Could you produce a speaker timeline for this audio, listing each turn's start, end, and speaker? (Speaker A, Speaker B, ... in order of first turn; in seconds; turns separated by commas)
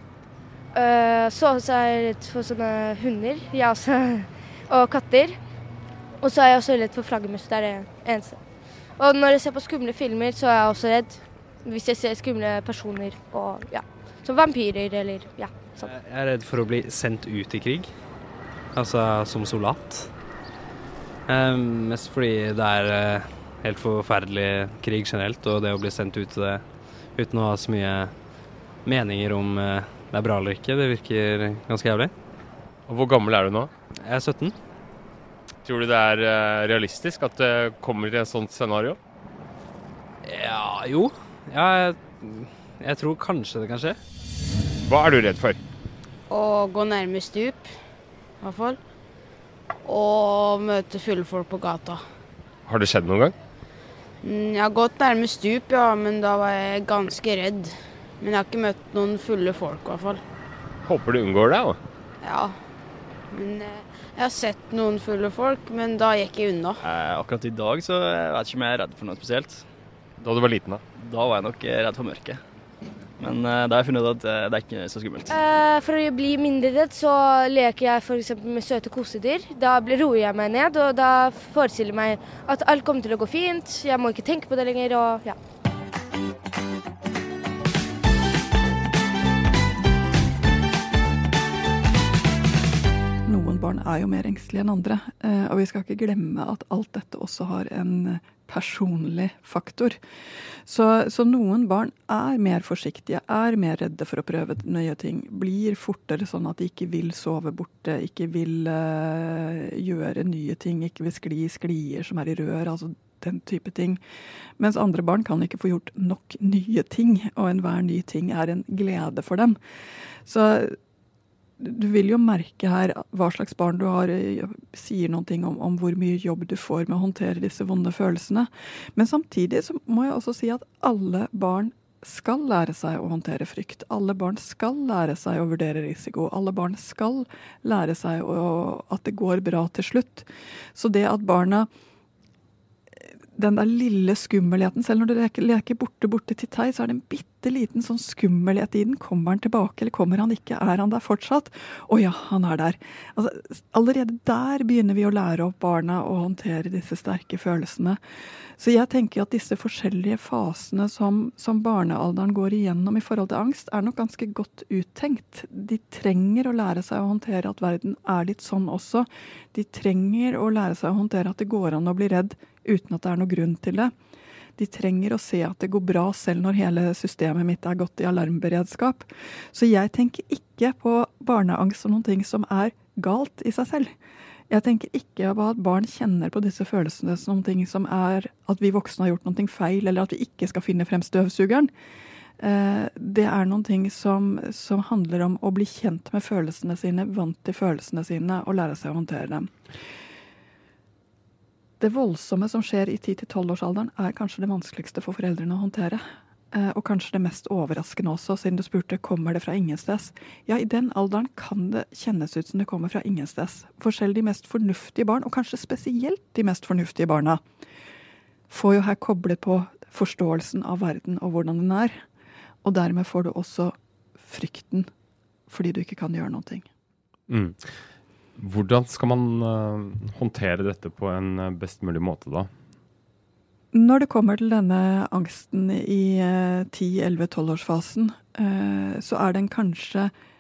Speaker A: 0.7-5.4, Speaker A: 6.2-8.4, Speaker A: 9.0-15.9, Speaker B: 15.8-17.9, Speaker B: 18.7-20.1, Speaker B: 21.3-28.2, Speaker B: 28.9-32.1, Speaker C: 32.9-33.7, Speaker B: 34.0-34.5, Speaker C: 35.6-39.0, Speaker B: 40.2-44.0, Speaker C: 44.8-45.6, Speaker D: 46.3-47.7, Speaker D: 48.4-48.8, Speaker D: 49.9-52.0, Speaker C: 52.7-53.4, Speaker D: 54.2-60.2, Speaker C: 60.9-61.8, Speaker D: 62.2-62.5, Speaker D: 63.3-66.8, Speaker E: 66.8-69.7, Speaker C: 70.2-70.8, Speaker E: 71.0-72.4, Speaker E: 73.2-75.4, Speaker A: 75.3-85.4, Speaker F: 93.3-100.0, Speaker F: 100.7-114.0, Speaker F: 114.6-119.6, Speaker F: 120.3-120.8, Speaker F: 121.6-141.7, Speaker F: 143.4-158.0, Speaker F: 158.6-173.9, Speaker F: 174.6-183.9, Speaker F: 184.5-191.7, Speaker F: 192.4-199.5, Speaker F: 201.8-217.4, Speaker F: 218.5-222.0, Speaker F: 222.6-224.9, Speaker F: 225.5-226.7, Speaker C: 227.3-227.8, Speaker C: 228.4-232.5, Speaker F: 233.7-240.1